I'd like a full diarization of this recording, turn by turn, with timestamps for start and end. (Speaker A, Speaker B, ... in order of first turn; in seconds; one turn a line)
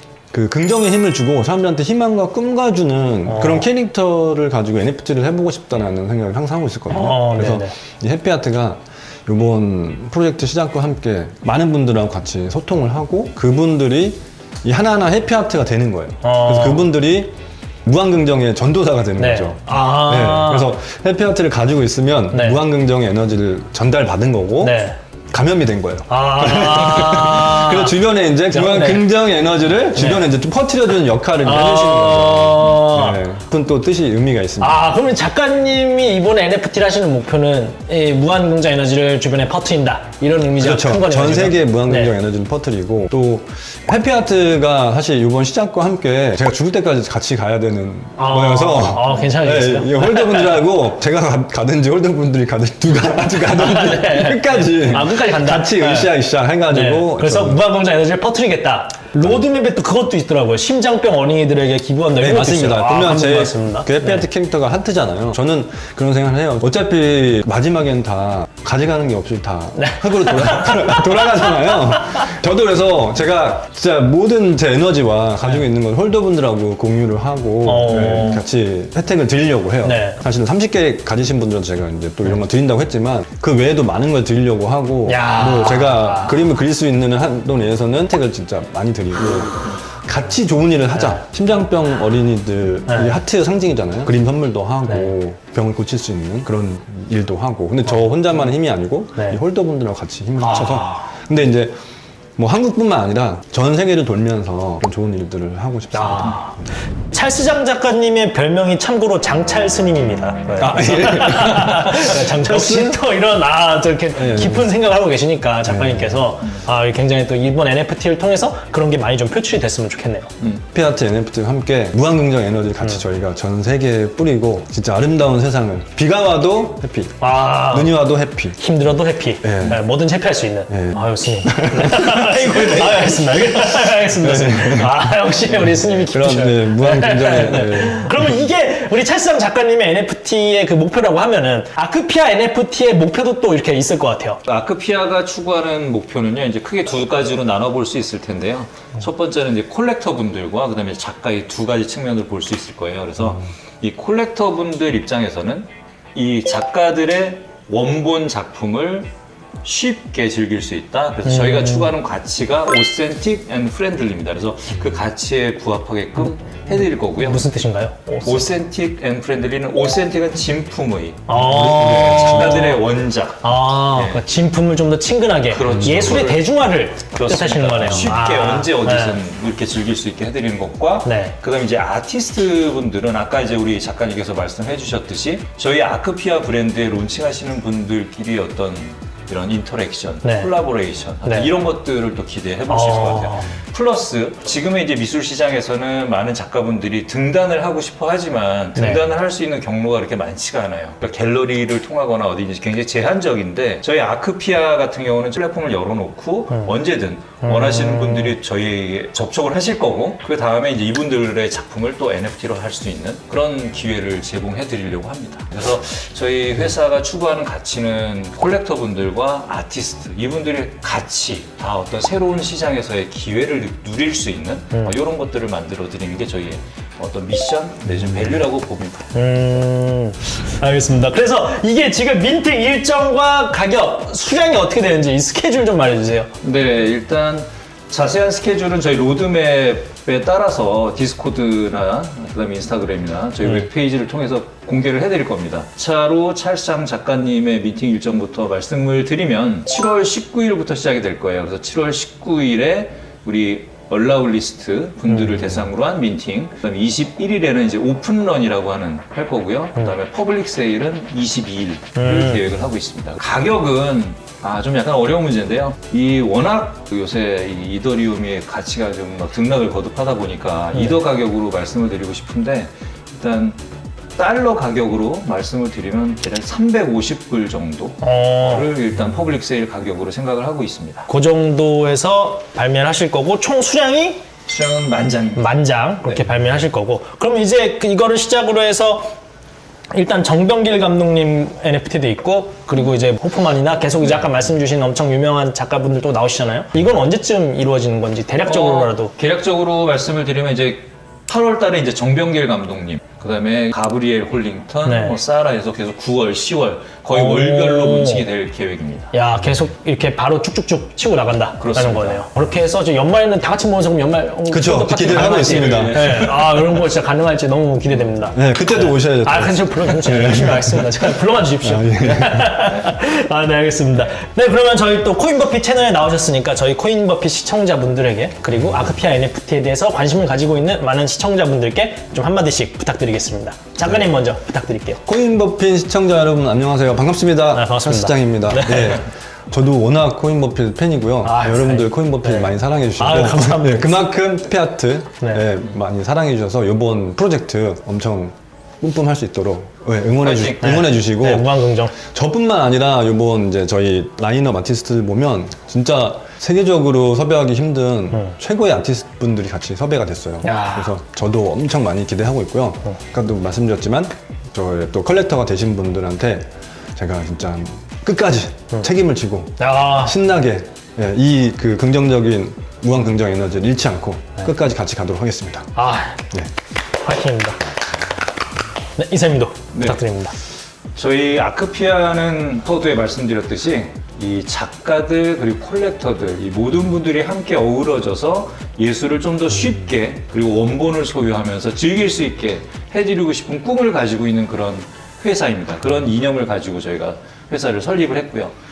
Speaker A: 0.3-17.3
Speaker B: 3.2-3.7
Speaker B: 6.9-7.7
Speaker B: 16.2-16.9
Speaker A: 17.9-24.8
Speaker B: 19.2-20.7
Speaker B: 22.3-22.6
Speaker B: 24.6-25.0
Speaker A: 25.3-34.9
Speaker B: 26.1-28.0
Speaker B: 28.5-29.1
Speaker B: 29.9-30.3
Speaker B: 31.4-33.2
Speaker B: 34.6-42.1
Speaker A: 40.6-57.6
Speaker B: 48.2-50.6
Speaker B: 53.3-56.1
Speaker B: 56.7-64.2
Speaker A: 62.2-101.8
Speaker B: 69.8-72.2
Speaker B: 77.6-78.4
Speaker B: 79.8-80.2
Speaker B: 85.0-86.4
Speaker B: 92.9-93.2
Speaker B: 94.9-95.1
Speaker B: 100.4-101.1
Speaker A: 102.4-106.4
Speaker B: 105.9-106.6
Speaker B: 107.1-120.3
Speaker A: 110.6-113.0
Speaker A: 114.2-114.7
Speaker A: 115.6-116.3
Speaker C: 120.4-120.6
Speaker A: 120.7-128.6
Speaker B: 127.2-128.0
Speaker B: 128.6-144.4
Speaker A: 129.4-129.8
Speaker A: 130.7-138.2
Speaker C: 144.5-159.1
Speaker C: 159.6-167.4
Speaker B: 161.2-161.9
Speaker B: 166.8-168.5
Speaker C: 168.2-174.2
Speaker B: 171.3-172.8
Speaker A: 171.3-172.7
Speaker B: 173.4-179.2
Speaker C: 175.5-176.5
Speaker C: 177.1-229.1
Speaker B: 181.0-181.4
Speaker B: 190.2-190.5
Speaker B: 191.2-191.5
Speaker B: 192.7-193.5
Speaker B: 198.8-199.1
Speaker B: 206.5-206.8
Speaker B: 207.4-208.4
Speaker B: 229.1-236.3
Speaker C: 236.4-273.6
Speaker B: 243.4-243.7
Speaker B: 262.0-262.4
Speaker C: 274.2-281.1
Speaker B: 278.0-278.7
Speaker B: 281.1-284.2
Speaker C: 284.5-285.4
Speaker B: 285.3-289.1
Speaker B: 289.9-299.1
Speaker C: 298.4-309.1
Speaker B: 304.8-305.2
Speaker B: 307.1-308.2
Speaker B: 309.1-335.0
Speaker C: 311.6-312.2
Speaker A: 314.5-316.3
Speaker C: 315.1-316.5
Speaker A: 318.3-321.1
Speaker A: 321.6-322.7
Speaker A: 335.1-375.7
Speaker B: 337.5-339.0
Speaker B: 341.2-344.0
Speaker C: 350.2-350.8
Speaker B: 350.6-351.9
Speaker B: 360.4-361.0
Speaker B: 369.6-370.2
Speaker B: 375.8-376.2
Speaker B: 377.0-377.6
Speaker B: 379.0-380.3
Speaker C: 379.7-380.0
Speaker C: 381.0-398.5